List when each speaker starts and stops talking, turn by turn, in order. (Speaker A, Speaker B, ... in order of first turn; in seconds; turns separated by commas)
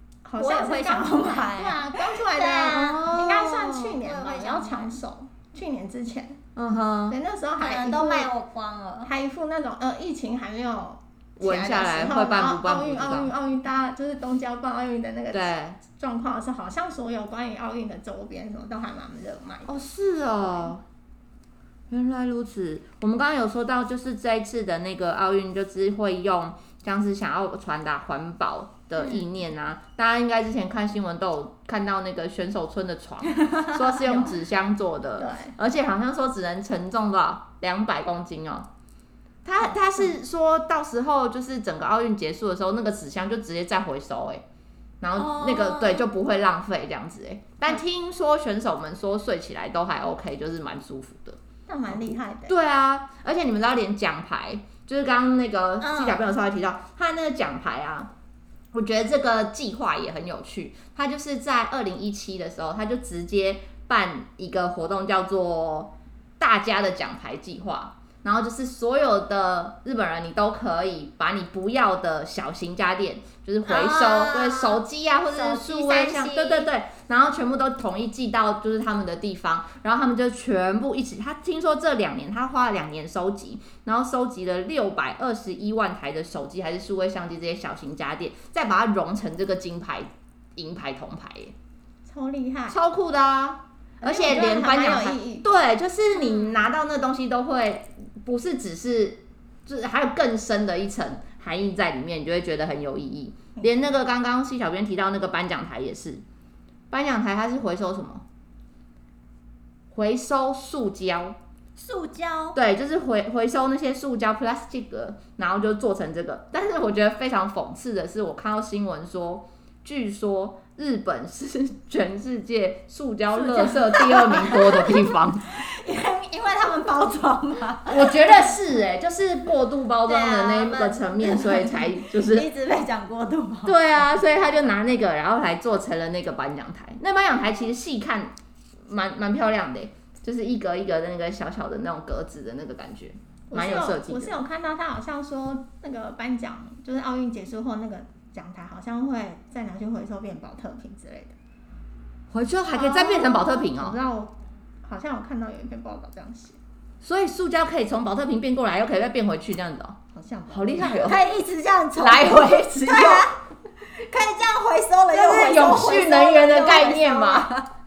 Speaker A: 0.2-6.4, Speaker B: 0.4-3.1, Speaker C: 2.7-4.0, Speaker B: 4.0-5.0, Speaker C: 6.6-7.2, Speaker A: 7.1-8.3, Speaker B: 7.6-9.1, Speaker A: 9.0-19.7, Speaker C: 11.4-13.3, Speaker C: 15.3-15.8, Speaker C: 19.7-20.8, Speaker C: 21.9-38.7, Speaker B: 33.5-34.3, Speaker A: 35.2-35.5, Speaker C: 39.5-44.4, Speaker C: 45.0-51.4, Speaker B: 45.2-46.1, Speaker A: 51.7-52.5, Speaker C: 51.9-58.1, Speaker B: 55.8-56.2, Speaker C: 58.7-91.5, Speaker B: 73.7-76.7, Speaker A: 92.1-92.8, Speaker C: 92.7-106.2, Speaker A: 94.0-95.5, Speaker B: 96.2-96.6, Speaker C: 106.9-108.2, Speaker C: 109.9-111.4, Speaker B: 111.8-112.6, Speaker C: 112.5-125.5, Speaker B: 123.3-128.5, Speaker C: 127.9-132.5, Speaker B: 130.1-134.1, Speaker C: 133.7-138.3, Speaker C: 138.8-144.4, Speaker A: 143.5-151.4, Speaker C: 152.3-154.0, Speaker A: 152.7-154.3, Speaker A: 154.8-156.6, Speaker C: 157.0-160.0, Speaker A: 160.1-161.1, Speaker C: 160.5-161.2, Speaker B: 160.9-167.7, Speaker C: 162.0-163.3, Speaker C: 165.1-167.5